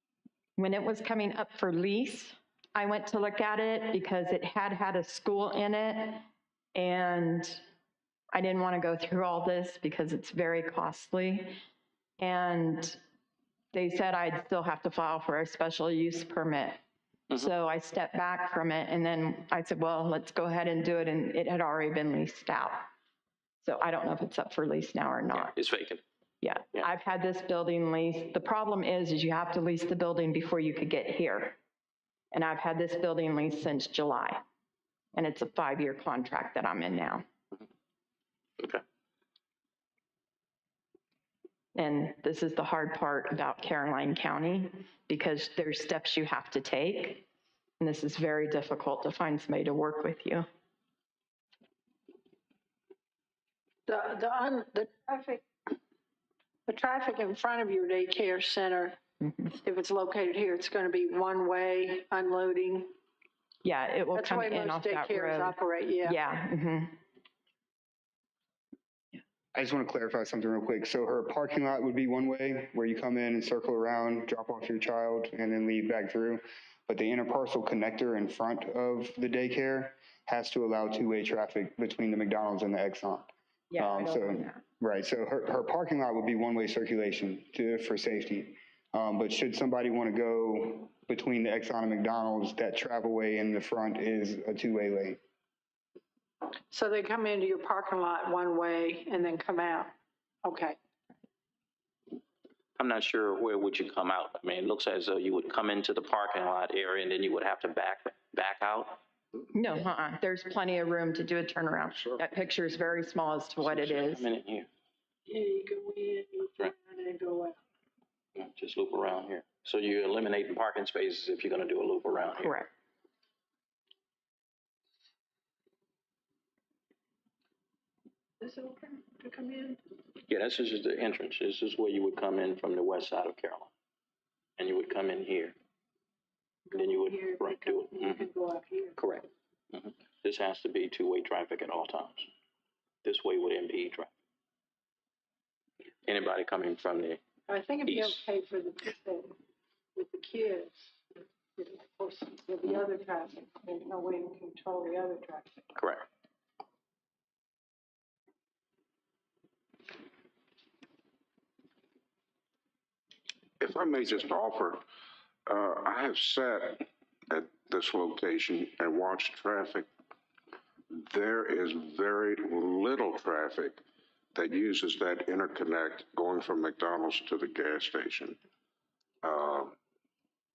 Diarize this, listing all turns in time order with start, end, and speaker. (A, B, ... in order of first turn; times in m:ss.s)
0:00.6-0:07.6 A
0:08.3-0:11.6 A
0:12.2-0:13.0 A
0:13.7-0:16.8 A
0:17.3-0:22.9 A
0:23.6-0:25.5 A
0:25.3-0:26.0 B
0:26.4-0:31.6 A
0:32.3-0:34.4 A
0:35.1-0:37.2 A
0:41.8-0:47.2 A
0:47.8-0:50.4 A
0:53.9-0:55.4 C
0:56.7-0:59.0 C
0:59.2-0:59.5 A
0:59.5-1:02.9 C
1:03.6-1:07.0 A
1:04.1-1:06.2 C
1:09.5-1:35.2 D
1:23.7-1:24.6 A
1:36.7-1:40.8 C
1:42.8-1:49.0 B
1:49.5-1:54.2 A
1:53.6-1:54.7 B
1:55.3-1:57.6 C
1:58.4-2:02.6 B
2:02.4-2:02.7 A
2:08.4-2:09.8 C
2:10.3-2:13.7 B
2:14.6-2:15.6 B
2:16.7-2:18.9 C
2:16.7-2:18.2 B
2:19.0-2:22.3 B
2:23.0-2:24.1 B
2:26.0-2:27.2 B
2:27.5-2:29.3 C
2:27.8-2:28.2 B
2:30.0-2:30.8 C
2:31.6-2:35.6 C
2:35.7-2:36.0 B
2:43.6-2:44.8 E
2:45.5-2:49.9 E
2:50.9-2:53.8 E
2:54.3-2:58.4 E
2:59.2-2:59.8 E